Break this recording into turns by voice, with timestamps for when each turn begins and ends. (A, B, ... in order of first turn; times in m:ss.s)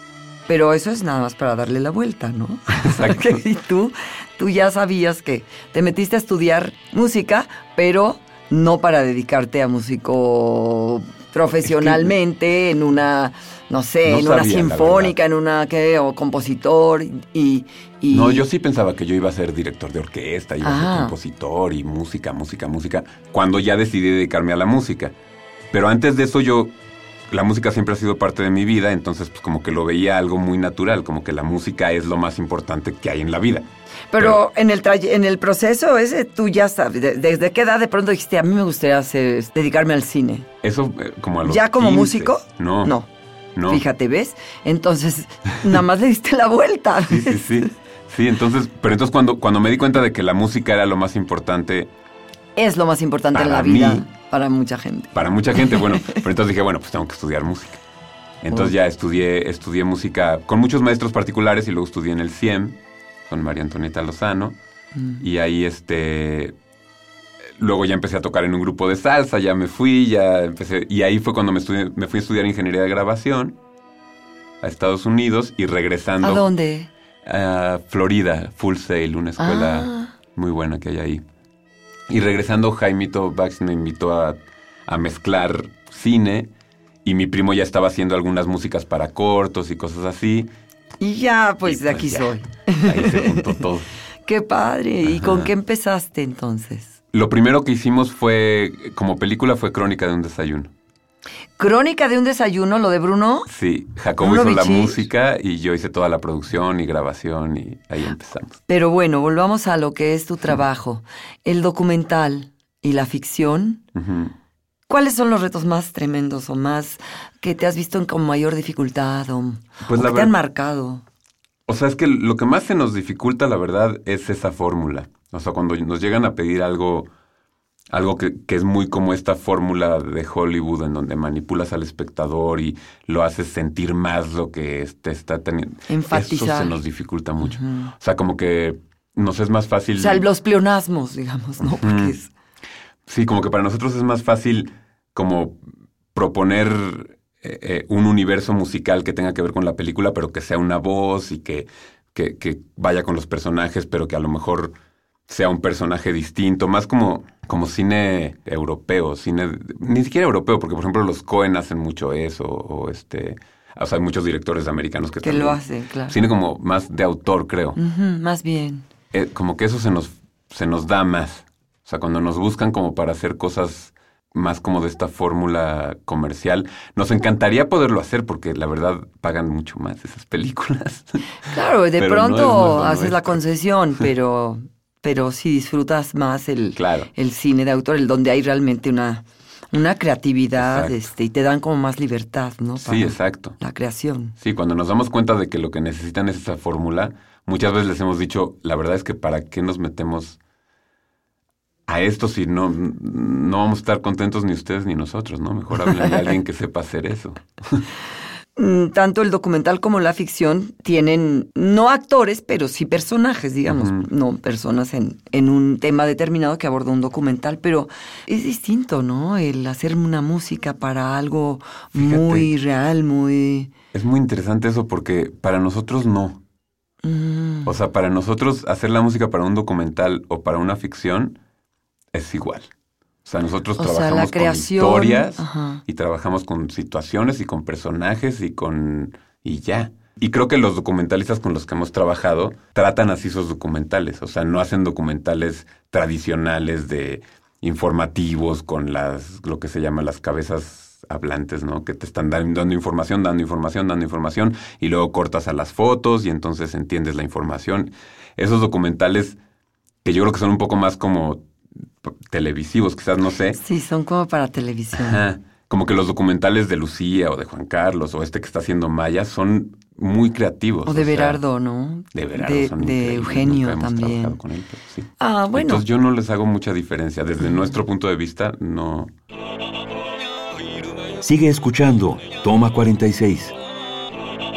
0:00.5-0:18.4 A
0:02.8-0:03.4 B
0:11.6-0:12.1 B
0:14.0-0:15.2 B
0:18.1-0:25.1 B
0:20.6-0:21.1 A
0:25.7-0:26.7 B
0:27.3-0:33.6 B
0:34.1-0:40.5 A
0:40.6-0:43.0 B
0:41.4-0:43.1 A
0:43.6-0:43.8 B
0:43.7-0:47.5 A
0:47.0-0:51.9 B
0:52.6-0:56.2 A
0:53.3-0:54.0 B
0:55.1-0:57.8 B
0:58.4-1:04.6 B
1:04.9-1:05.2 A
1:05.2-1:06.5 B
1:07.6-1:13.6 B
1:14.6-1:16.5 B
1:16.2-1:16.9 A
1:17.2-1:21.2 B
1:19.4-1:20.1 A
1:22.1-1:26.5 B
1:27.0-1:30.5 B
1:31.0-1:33.6 A
1:31.6-1:33.9 B
1:34.2-1:36.9 A
1:35.0-1:35.5 B
1:37.1-1:40.7 B
1:41.6-1:43.5 A
1:43.5-1:48.6 B
1:44.2-1:45.1 A
1:48.7-1:53.8 A
1:53.9-1:54.3 B
1:54.9-2:01.0 A
1:59.8-2:00.3 B
2:01.7-2:07.1 B
2:07.9-2:20.2 B
2:15.9-2:16.8 A
2:17.4-2:17.9 A
2:20.0-2:22.3 A
2:21.6-2:22.2 B
2:23.0-2:34.7 B
2:35.3-2:47.8 B
2:45.2-2:46.2 A
2:47.8-2:48.8 A
2:49.1-3:01.2 B
3:01.5-3:14.3 A
3:02.0-3:03.4 B
3:06.7-3:07.1 B
3:10.6-3:11.1 B
3:12.8-3:13.6 B
3:14.4-3:20.4 B
3:21.9-3:27.8 B
3:28.6-3:43.7 A
3:33.6-3:34.1 B
3:41.9-3:42.5 B
3:43.9-3:46.4 B
3:47.0-3:47.8 A
3:47.6-3:51.4 B
3:52.1-3:52.7 B
3:53.2-4:19.4 B
3:53.8-3:55.8 A
4:20.0-4:21.5 B
4:22.0-4:23.6 B
4:23.6-4:25.2 A
4:24.9-4:31.4 B
4:30.8-4:34.4 A
4:32.1-4:39.1 B
4:35.2-4:35.8 A
4:41.2-4:43.5 C